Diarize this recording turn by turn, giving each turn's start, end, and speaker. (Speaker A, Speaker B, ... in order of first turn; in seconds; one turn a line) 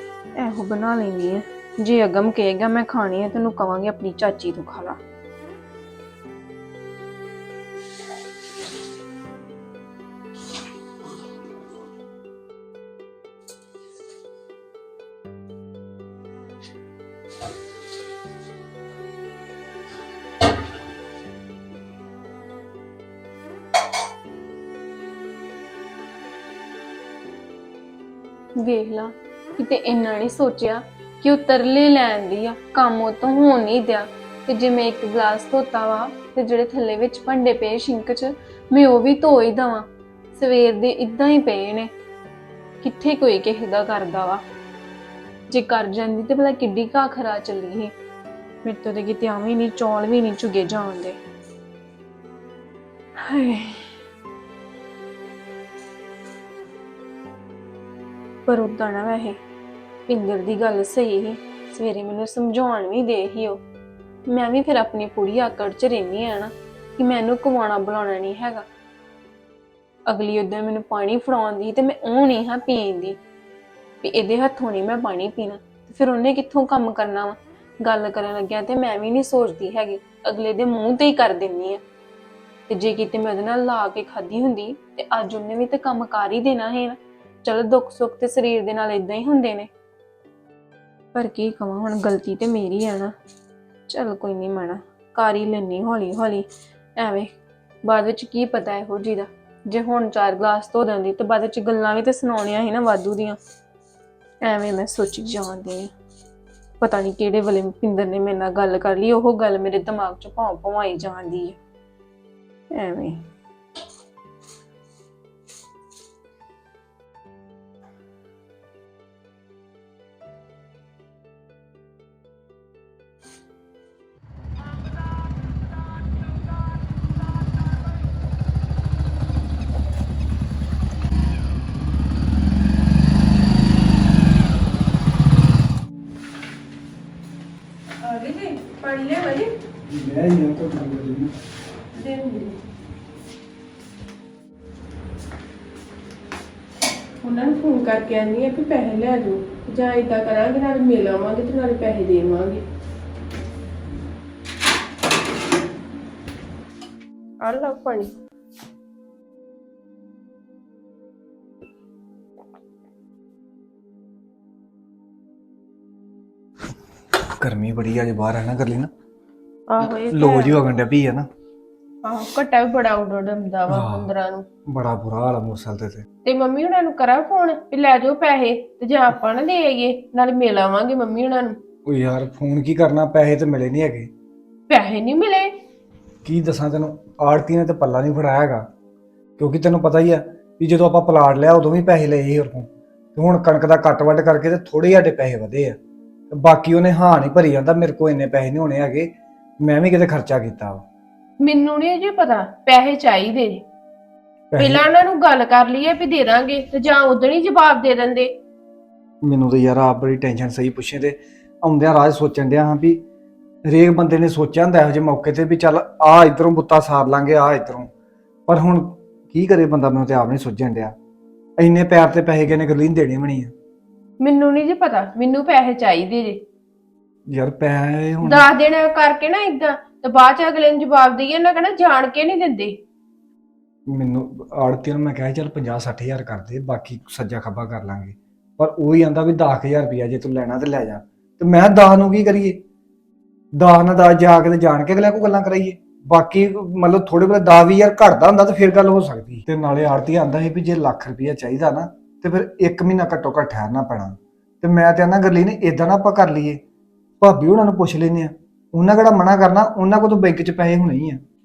Speaker A: 0.4-5.0
Speaker A: 28.6-41.9
Speaker A: 42.8-44.4
Speaker A: 45.5-47.9
Speaker A: 48.6-51.2
Speaker A: 53.2-53.9
Speaker A: 58.5-59.4
Speaker A: 60.1-63.6
Speaker A: 64.3-68.6
Speaker A: 70.1-73.2
Speaker A: 74.0-81.8
Speaker A: 82.7-89.7
Speaker A: 91.1-93.1
Speaker A: 93.9-103.4
Speaker A: 104.4-105.9
Speaker A: 106.8-111.6
Speaker A: 112.7-113.2
Speaker B: 138.0-139.5
Speaker C: 139.9-141.3
Speaker B: 141.9-142.6
Speaker B: 147.2-152.6
Speaker B: 157.4-158.1
Speaker C: 167.4-168.9
Speaker B: 169.7-170.6
Speaker C: 169.8-171.2
Speaker B: 172.0-174.4
Speaker C: 173.7-174.1
Speaker C: 174.7-176.0
Speaker B: 176.2-181.6
Speaker C: 181.8-184.1
Speaker B: 184.7-185.5
Speaker C: 186.2-188.6
Speaker C: 189.4-195.8
Speaker C: 196.3-200.8
Speaker B: 201.4-203.6
Speaker C: 204.5-204.8
Speaker B: 204.6-208.3
Speaker C: 209.2-213.0
Speaker C: 213.7-217.9
Speaker C: 218.5-220.9
Speaker C: 221.6-223.5
Speaker B: 224.2-226.4
Speaker C: 227.3-228.5
Speaker B: 228.2-232.8
Speaker C: 233.9-242.6
Speaker C: 243.5-256.6
Speaker C: 257.2-261.2